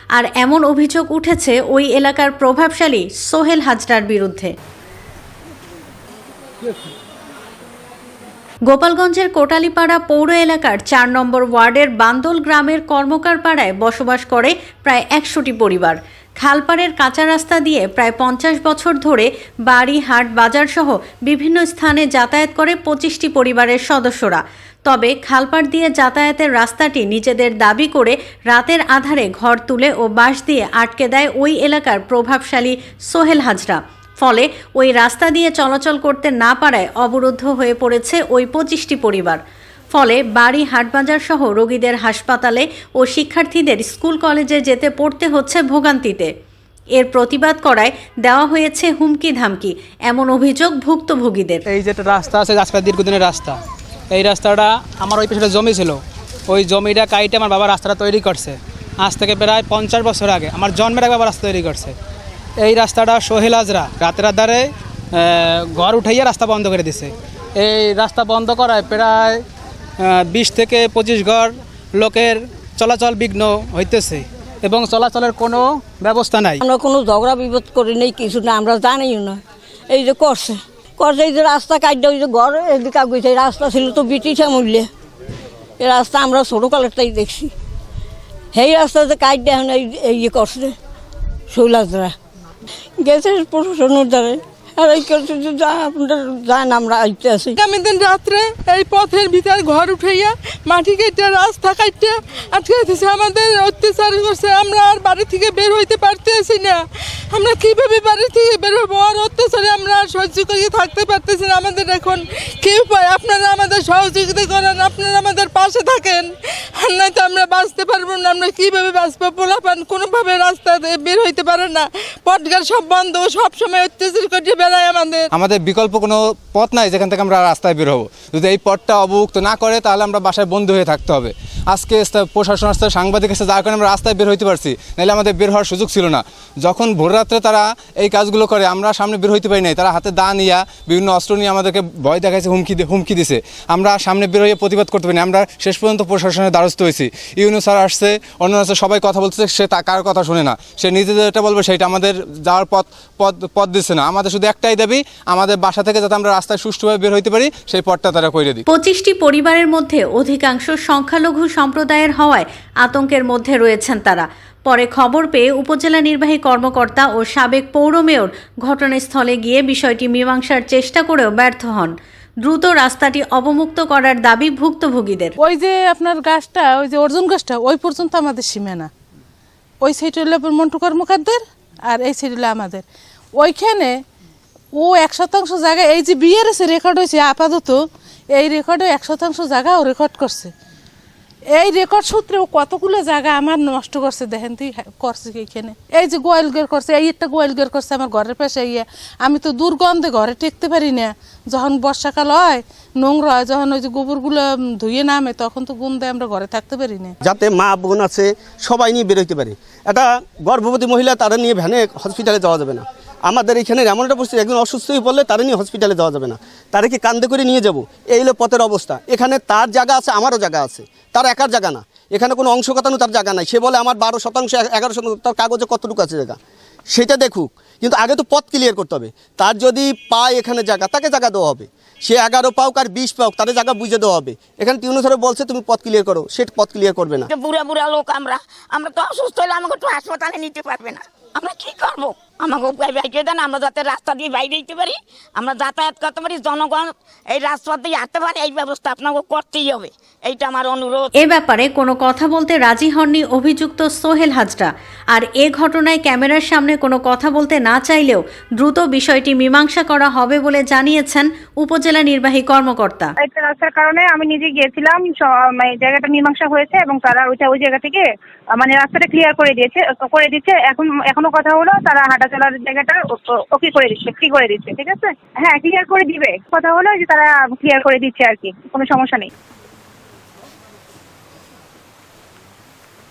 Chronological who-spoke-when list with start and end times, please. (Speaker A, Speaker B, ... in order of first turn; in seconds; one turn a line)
Speaker A: 0.1-4.5
Speaker A: 8.7-39.4
Speaker A: 39.9-46.3
Speaker A: 47.0-51.6
Speaker B: 51.7-53.6
Speaker B: 54.1-62.0
Speaker B: 62.6-69.4
Speaker B: 70.0-76.6
Speaker C: 76.6-84.9
Speaker C: 85.8-87.5
Speaker C: 88.5-90.8
Speaker C: 91.5-92.1
Speaker C: 93.0-97.6
Speaker D: 97.6-125.3
Speaker E: 125.3-158.7
Speaker A: 158.7-171.9
Speaker A: 172.4-175.3
Speaker D: 175.4-178.9
Speaker D: 179.8-182.8
Speaker D: 183.4-183.9
Speaker D: 184.7-190.5
Speaker D: 191.5-207.1
Speaker F: 207.2-226.4
Speaker F: 226.9-237.3
Speaker G: 237.3-251.1
Speaker A: 251.2-263.1
Speaker H: 263.2-268.0
Speaker H: 268.6-279.3